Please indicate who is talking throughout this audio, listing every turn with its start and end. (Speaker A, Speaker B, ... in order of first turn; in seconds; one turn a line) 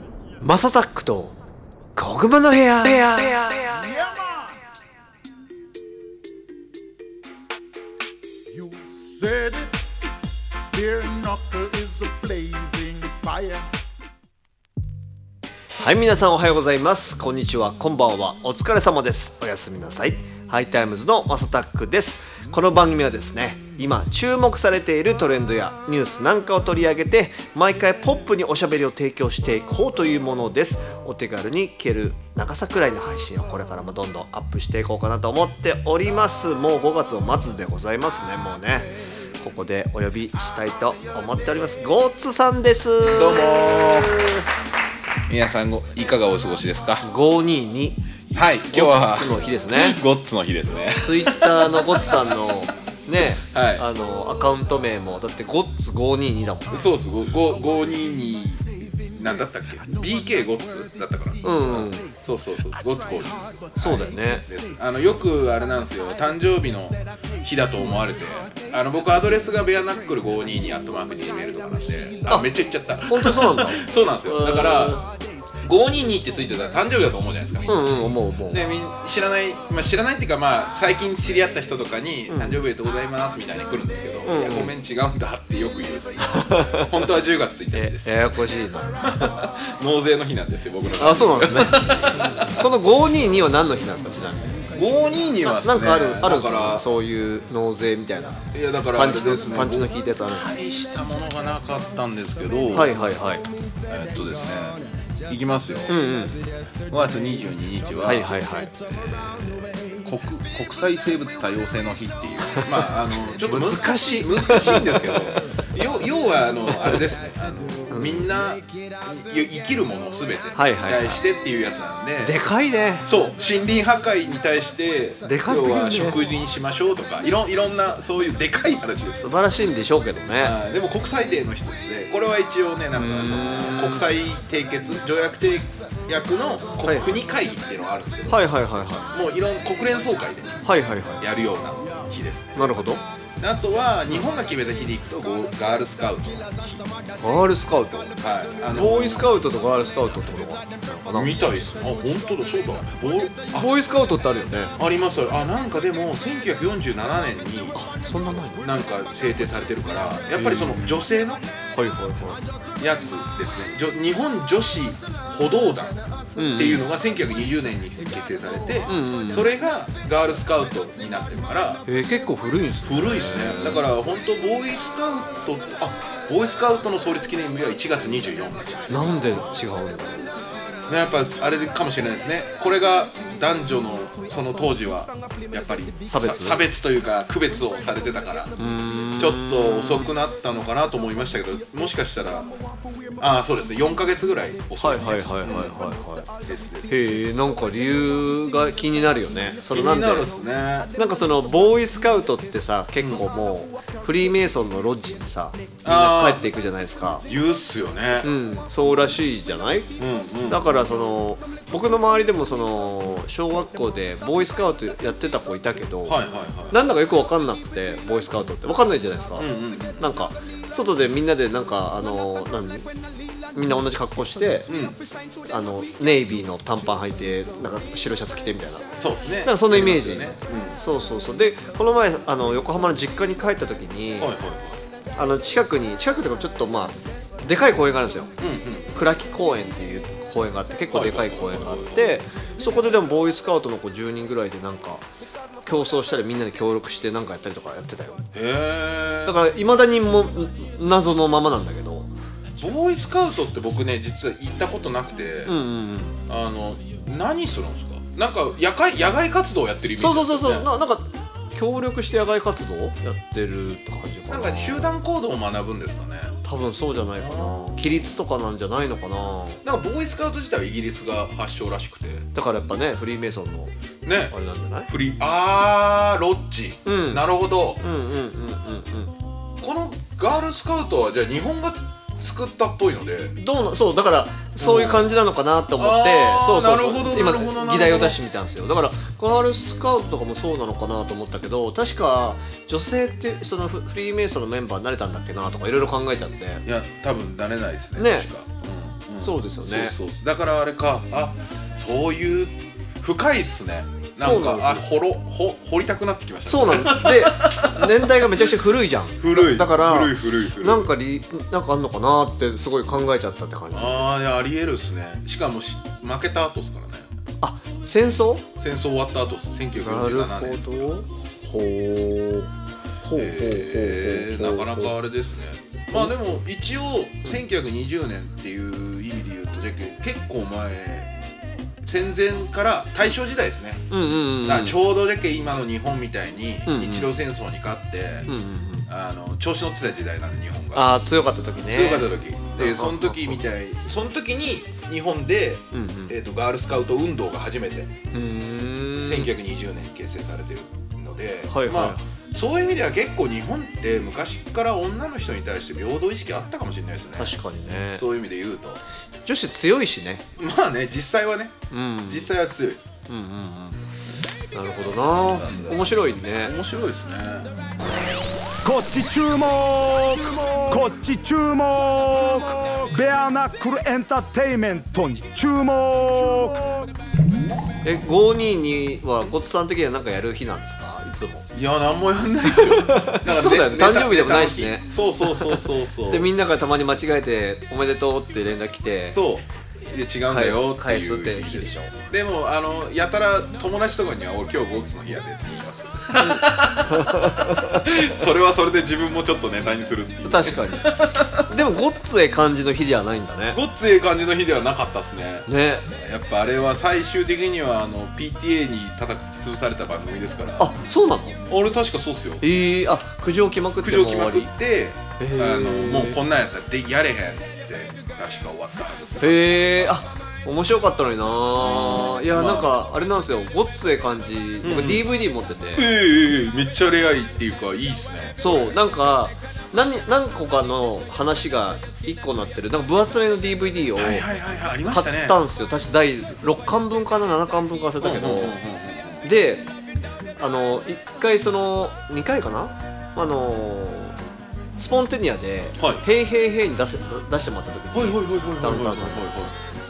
Speaker A: 0.4-1.4
Speaker A: 1.9-3.9
Speaker B: 3.7-4.5
Speaker B: 8.5-9.7
Speaker B: 10.7-13.7
Speaker A: 15.8-44.4
Speaker C: 43.0-44.2
Speaker C: 45.3-47.0
Speaker A: 47.0-48.0
Speaker C: 48.3-52.4
Speaker A: 48.7-50.0
Speaker A: 51.0-56.8
Speaker C: 53.4-53.9
Speaker C: 56.7-75.0
Speaker A: 61.4-62.1
Speaker A: 63.8-64.4
Speaker A: 73.1-75.1
Speaker C: 75.6-78.0
Speaker A: 77.7-78.6
Speaker C: 78.5-88.1
Speaker A: 82.3-82.6
Speaker A: 84.2-84.7
Speaker A: 86.3-86.8
Speaker A: 87.7-89.3
Speaker C: 89.0-92.5
Speaker A: 91.0-92.0
Speaker A: 92.5-94.7
Speaker C: 94.7-96.8
Speaker A: 95.4-100.5
Speaker C: 98.5-103.0
Speaker A: 102.7-103.4
Speaker C: 103.9-105.9
Speaker A: 105.9-106.4
Speaker C: 106.9-122.4
Speaker A: 108.0-108.7
Speaker A: 113.4-115.4
Speaker A: 116.7-117.0
Speaker A: 117.9-118.3
Speaker A: 120.5-121.2
Speaker A: 122.2-123.0
Speaker C: 123.0-129.3
Speaker A: 125.2-126.2
Speaker A: 129.2-130.6
Speaker C: 130.4-138.5
Speaker A: 132.9-134.1
Speaker A: 136.8-137.1
Speaker A: 138.3-139.1
Speaker C: 139.1-140.6
Speaker A: 140.6-141.2
Speaker C: 141.2-142.6
Speaker A: 142.6-143.0
Speaker C: 143.4-146.9
Speaker A: 147.2-148.1
Speaker C: 148.2-149.3
Speaker A: 148.7-151.3
Speaker C: 151.1-153.8
Speaker A: 153.6-154.8
Speaker C: 154.8-157.8
Speaker A: 157.8-158.7
Speaker C: 158.6-161.4
Speaker A: 160.4-160.9
Speaker A: 161.7-162.4
Speaker C: 162.8-171.8
Speaker A: 166.4-166.9
Speaker A: 168.9-169.5
Speaker A: 171.9-173.9
Speaker C: 172.8-179.2
Speaker A: 178.9-180.3
Speaker C: 180.9-188.5
Speaker A: 186.1-186.6
Speaker A: 188.6-190.1
Speaker C: 189.2-192.5
Speaker C: 193.2-195.9
Speaker A: 194.8-196.3
Speaker C: 196.4-197.2
Speaker A: 196.9-200.3
Speaker C: 199.7-200.9
Speaker A: 201.0-207.2
Speaker C: 203.0-203.2
Speaker C: 205.8-206.4
Speaker C: 207.3-208.3
Speaker A: 208.2-209.9
Speaker C: 210.0-210.8
Speaker A: 210.5-222.9
Speaker C: 216.1-216.8
Speaker C: 219.4-220.1
Speaker A: 223.5-224.7
Speaker C: 224.7-225.0
Speaker A: 225.5-234.3
Speaker C: 229.0-230.8
Speaker C: 234.2-234.8
Speaker A: 235.2-238.3
Speaker C: 238.4-239.0
Speaker A: 238.9-245.1
Speaker C: 240.9-242.2
Speaker A: 245.7-248.3
Speaker C: 248.3-249.4
Speaker A: 249.2-252.1
Speaker C: 252.6-255.5
Speaker A: 255.4-256.2
Speaker C: 256.3-260.7
Speaker A: 260.0-264.9
Speaker C: 264.3-266.4
Speaker A: 266.4-269.6
Speaker C: 267.2-267.6
Speaker C: 269.6-272.3
Speaker A: 272.3-273.7
Speaker C: 274.0-274.3
Speaker A: 274.2-274.9
Speaker C: 274.9-277.8
Speaker A: 276.9-277.2
Speaker A: 277.8-279.1
Speaker C: 279.6-283.3
Speaker A: 283.4-296.6
Speaker C: 284.6-285.1
Speaker C: 285.8-288.2
Speaker C: 296.6-308.5
Speaker A: 297.9-298.3
Speaker A: 299.2-299.9
Speaker A: 304.2-304.8
Speaker A: 306.4-314.1
Speaker C: 309.2-310.9
Speaker C: 313.7-317.1
Speaker A: 317.4-318.4
Speaker C: 318.6-321.0
Speaker A: 319.8-322.5
Speaker A: 323.0-324.9
Speaker C: 323.1-331.1
Speaker C: 331.8-333.9
Speaker A: 333.9-334.8
Speaker C: 334.4-338.3
Speaker A: 336.6-337.1
Speaker A: 338.3-338.9
Speaker C: 338.9-340.9
Speaker A: 340.7-343.4
Speaker C: 341.7-347.9
Speaker A: 345.7-346.1
Speaker A: 348.1-349.3
Speaker C: 349.0-357.4
Speaker A: 351.5-352.0
Speaker A: 357.2-358.0
Speaker C: 357.9-358.8
Speaker A: 359.2-360.2
Speaker C: 360.4-361.5
Speaker A: 361.7-362.3
Speaker C: 362.1-362.9
Speaker A: 363.1-363.8
Speaker A: 364.5-366.5
Speaker C: 364.8-367.5
Speaker B: 368.6-376.9
Speaker A: 377.8-381.5
Speaker C: 381.5-386.3
Speaker A: 382.5-389.2
Speaker C: 389.1-401.6
Speaker A: 390.3-391.9
Speaker A: 396.2-397.9
Speaker A: 400.2-400.9
Speaker A: 401.5-403.6
Speaker C: 403.5-410.7
Speaker A: 405.5-405.9
Speaker A: 410.6-411.4
Speaker C: 411.5-412.4
Speaker A: 412.4-414.5
Speaker C: 413.8-420.1
Speaker A: 415.2-416.2
Speaker A: 419.2-425.9
Speaker C: 421.6-422.7
Speaker C: 424.6-425.1
Speaker C: 425.8-428.8
Speaker A: 428.4-434.3
Speaker C: 433.9-435.4
Speaker A: 434.9-438.6
Speaker C: 438.0-439.3
Speaker A: 439.2-439.7
Speaker A: 440.4-444.2
Speaker A: 444.8-449.2
Speaker C: 445.8-446.0
Speaker C: 447.9-449.5